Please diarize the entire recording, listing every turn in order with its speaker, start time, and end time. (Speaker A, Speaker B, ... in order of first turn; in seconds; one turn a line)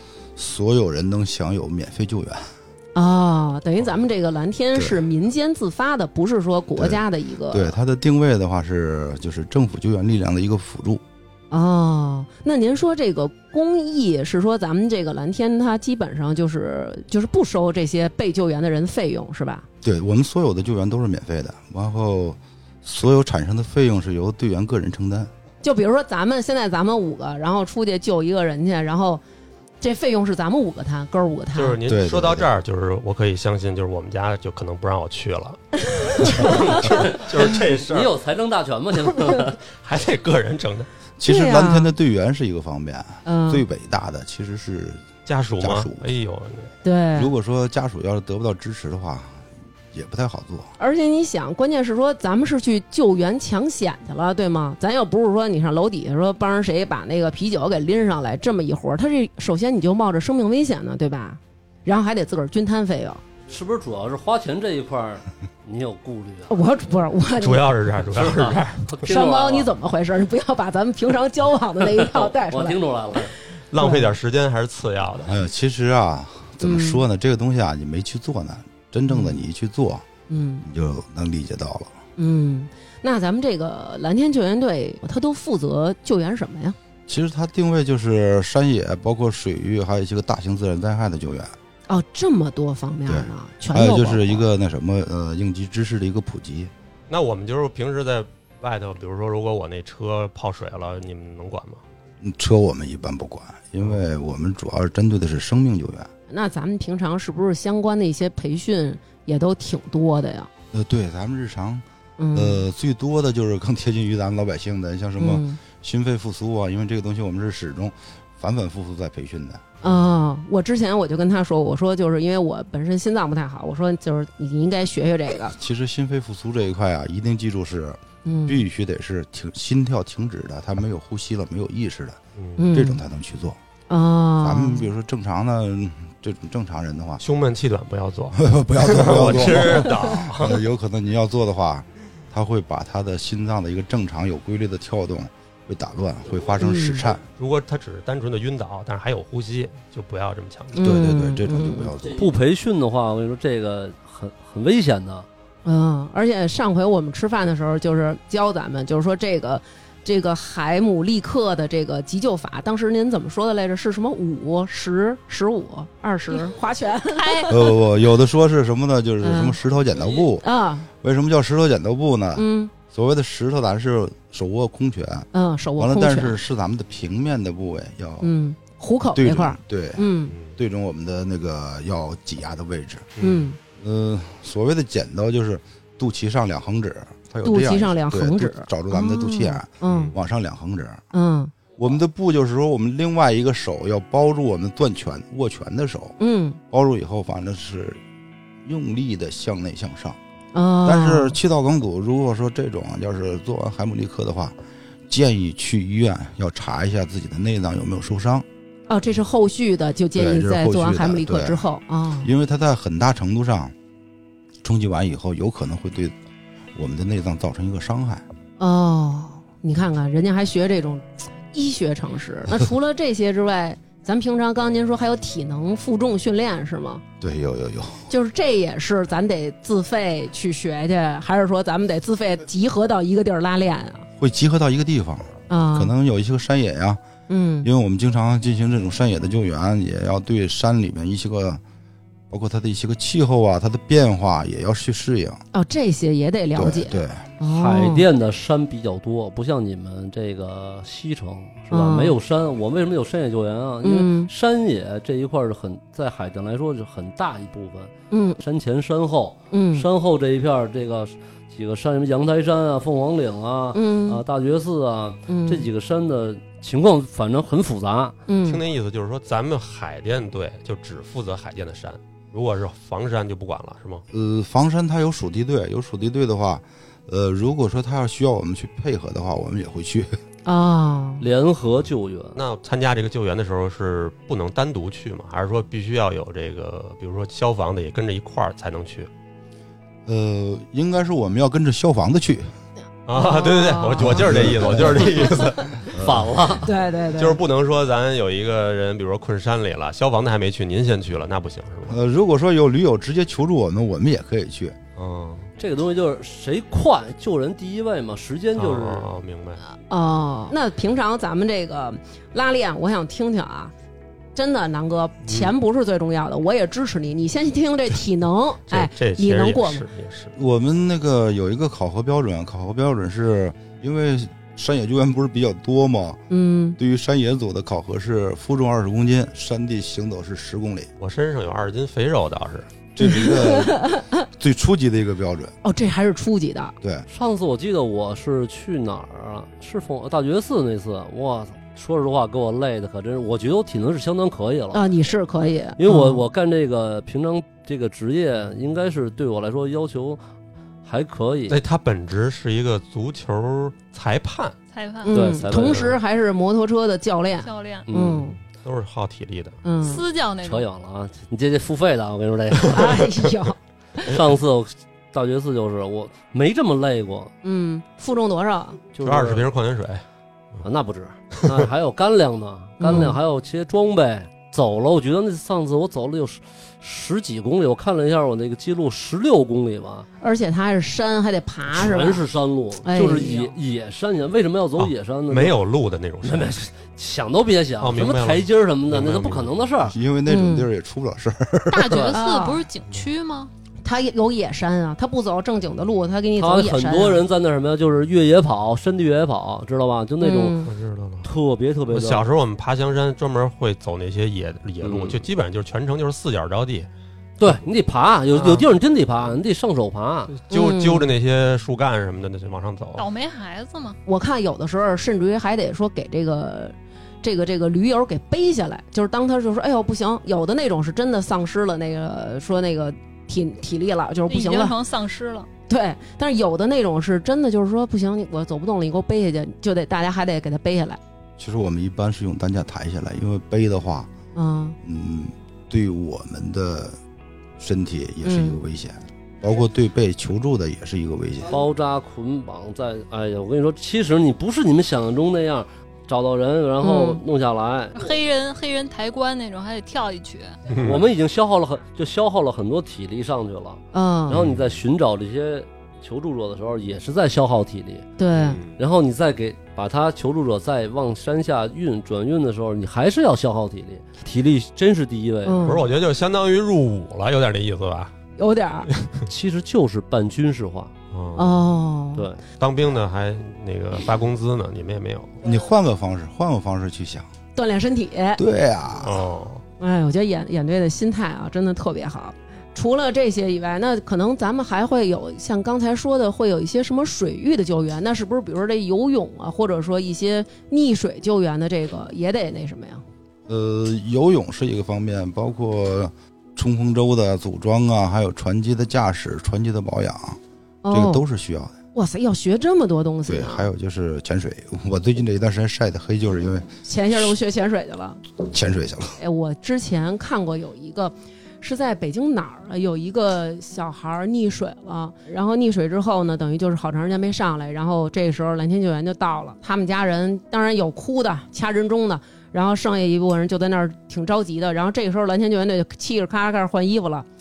Speaker A: 0.4-2.5
Speaker B: 3.0-7.8
Speaker A: 4.8-5.1
Speaker A: 6.8-11.0
Speaker B: 11.5-19.7
Speaker A: 19.8-25.3
Speaker B: 25.6-29.2
Speaker B: 29.8-31.8
Speaker C: 31.6-38.1
Speaker A: 31.8-32.5
Speaker B: 36.1-36.8
Speaker D: 36.8-39.6
Speaker C: 39.1-40.9
Speaker A: 41.2-45.1
Speaker B: 41.2-41.9
Speaker B: 43.2-43.6
Speaker C: 45.2-46.7
Speaker A: 45.6-46.1
Speaker B: 46.8-47.3
Speaker A: 47.1-50.7
Speaker B: 50.8-63.2
Speaker D: 63.5-66.5
Speaker B: 66.5-67.7
Speaker C: 67.4-69.0
Speaker D: 68.1-69.8
Speaker B: 69.1-74.1
Speaker D: 71.8-73.3
Speaker C: 73.7-75.4
Speaker A: 75.2-80.0
Speaker B: 76.6-77.0
Speaker B: 79.1-79.4
Speaker B: 80.3-80.7
Speaker A: 80.6-82.0
Speaker B: 82.2-86.8
Speaker A: 87.1-91.5
Speaker B: 91.9-94.5
Speaker A: 93.1-96.7
Speaker C: 97.1-101.8
Speaker A: 102.2-106.1
Speaker B: 106.3-110.5
Speaker A: 110.7-119.8
Speaker B: 112.2-112.7
Speaker B: 115.2-115.6
Speaker B: 119.8-125.6
Speaker A: 125.6-132.2
Speaker B: 128.2-128.6
Speaker C: 132.4-132.6
Speaker B: 132.6-133.0
Speaker A: 132.7-133.6
Speaker B: 133.9-134.9
Speaker A: 134.4-137.2
Speaker C: 137.2-140.6
Speaker A: 138.3-147.2
Speaker B: 146.6-147.1
Speaker C: 147.4-150.8
Speaker B: 150.7-151.9
Speaker A: 150.8-152.3
Speaker D: 152.1-155.3
Speaker B: 155.6-167.7
Speaker E: 167.1-167.5
Speaker A: 167.5-178.3
Speaker B: 169.2-169.6
Speaker B: 170.4-170.9
Speaker B: 172.4-172.7
Speaker B: 175.3-176.4
Speaker B: 178.2-180.4
Speaker A: 179.2-183.2
Speaker C: 183.2-183.5
Speaker B: 183.2-183.6
Speaker A: 183.8-191.1
Speaker B: 187.4-190.1
Speaker C: 189.8-190.1
Speaker B: 191.1-191.5
Speaker A: 191.8-196.2
Speaker B: 196.2-196.6
Speaker A: 196.7-198.0
Speaker A: 198.6-200.2
Speaker B: 200.5-201.3
Speaker A: 200.8-204.6
Speaker A: 205.1-208.4
Speaker B: 208.9-212.3
Speaker A: 210.1-211.7
Speaker A: 212.2-213.7
Speaker A: 214.6-216.1
Speaker A: 216.8-218.2
Speaker B: 218.6-227.0
Speaker A: 227.2-228.1
Speaker B: 228.1-234.1
Speaker A: 234.2-237.0
Speaker B: 235.5-235.9
Speaker B: 237.3-237.7
Speaker A: 237.6-241.6
Speaker A: 242.3-245.4
Speaker B: 245.5-248.1
Speaker A: 246.6-247.3
Speaker D: 247.4-268.2
Speaker B: 251.7-252.2
Speaker B: 253.8-254.3
Speaker B: 258.1-258.4
Speaker B: 259.5-259.9
Speaker B: 263.7-264.2
Speaker B: 265.3-265.7
Speaker B: 268.3-268.6
Speaker C: 268.4-274.0
Speaker A: 274.1-280.2
Speaker B: 280.4-281.2
Speaker D: 281.2-282.4
Speaker C: 282.4-289.1
Speaker A: 290.1-292.5
Speaker C: 293.1-295.8
Speaker B: 293.1-294.5
Speaker A: 294.0-295.4
Speaker B: 295.1-295.6
Speaker A: 295.9-296.4
Speaker D: 296.0-296.7
Speaker B: 296.6-297.4
Speaker C: 297.1-302.0
Speaker A: 301.9-304.8
Speaker C: 305.0-305.5
Speaker D: 305.6-309.1
Speaker C: 308.6-309.6
Speaker B: 309.9-313.7
Speaker B: 314.4-319.8
Speaker C: 318.7-320.3
Speaker A: 320.4-326.2
Speaker B: 326.3-326.8
Speaker A: 326.8-330.9
Speaker C: 331.0-332.7
Speaker A: 332.9-335.6
Speaker B: 333.0-334.2
Speaker B: 335.6-336.7
Speaker A: 336.8-337.1
Speaker D: 337.1-344.9
Speaker B: 344.7-346.2
Speaker D: 345.8-350.2
Speaker D: 350.9-351.6
Speaker C: 351.5-354.6
Speaker E: 354.7-355.2
Speaker B: 355.0-358.4
Speaker D: 355.1-355.9
Speaker C: 355.4-356.0
Speaker E: 357.4-357.9
Speaker D: 357.9-358.2
Speaker C: 358.4-359.6
Speaker B: 359.6-360.0
Speaker E: 359.8-360.7
Speaker D: 360.4-363.1
Speaker B: 362.7-364.1
Speaker D: 364.1-367.3
Speaker B: 367.4-368.8
Speaker D: 368.9-369.4
Speaker C: 369.0-370.0
Speaker D: 370.6-380.1
Speaker C: 371.4-371.7
Speaker B: 372.8-373.2
Speaker B: 380.2-382.2
Speaker D: 381.7-385.6
Speaker B: 382.8-383.5
Speaker C: 384.8-386.6
Speaker D: 386.2-389.9
Speaker C: 387.8-389.6
Speaker A: 389.8-392.0
Speaker B: 390.3-390.7
Speaker E: 391.7-393.5
Speaker D: 391.7-392.2
Speaker B: 392.1-392.6
Speaker B: 393.8-397.2
Speaker D: 396.4-400.6
Speaker B: 400.2-400.7
Speaker C: 400.6-401.3
Speaker D: 401.2-402.2
Speaker C: 401.9-406.9
Speaker D: 404.8-405.2
Speaker D: 407.4-410.3
Speaker C: 408.3-408.7
Speaker C: 410.3-413.0
Speaker B: 410.5-411.1
Speaker E: 413.0-414.0
Speaker B: 414.1-424.8
Speaker E: 424.3-425.5
Speaker B: 425.7-431.0
Speaker A: 431.4-434.1
Speaker B: 434.4-434.8
Speaker A: 434.8-437.0
Speaker A: 437.6-441.6
Speaker B: 438.2-438.6
Speaker D: 441.5-448.0
Speaker B: 446.8-447.2
Speaker E: 448.0-450.6
Speaker C: 450.7-451.0
Speaker D: 450.8-458.1
Speaker B: 453.9-454.4
Speaker C: 454.3-454.7
Speaker B: 458.2-458.6
Speaker C: 458.3-458.8
Speaker D: 458.8-465.8
Speaker B: 465.4-465.9
Speaker C: 465.6-468.1
Speaker B: 468.4-468.9
Speaker C: 468.9-469.2
Speaker D: 469.3-470.9
Speaker C: 471.1-471.6
Speaker B: 471.4-472.3
Speaker D: 472.1-472.4
Speaker C: 472.6-475.4
Speaker A: 475.4-477.3
Speaker B: 477.6-478.4
Speaker A: 478.4-479.2
Speaker C: 479.0-479.6
Speaker B: 479.8-493.0
Speaker A: 493.5-501.8
Speaker B: 500.8-501.2
Speaker B: 501.9-503.7
Speaker A: 503.3-506.8
Speaker B: 506.9-508.2
Speaker A: 508.5-509.2
Speaker B: 509.2-527.2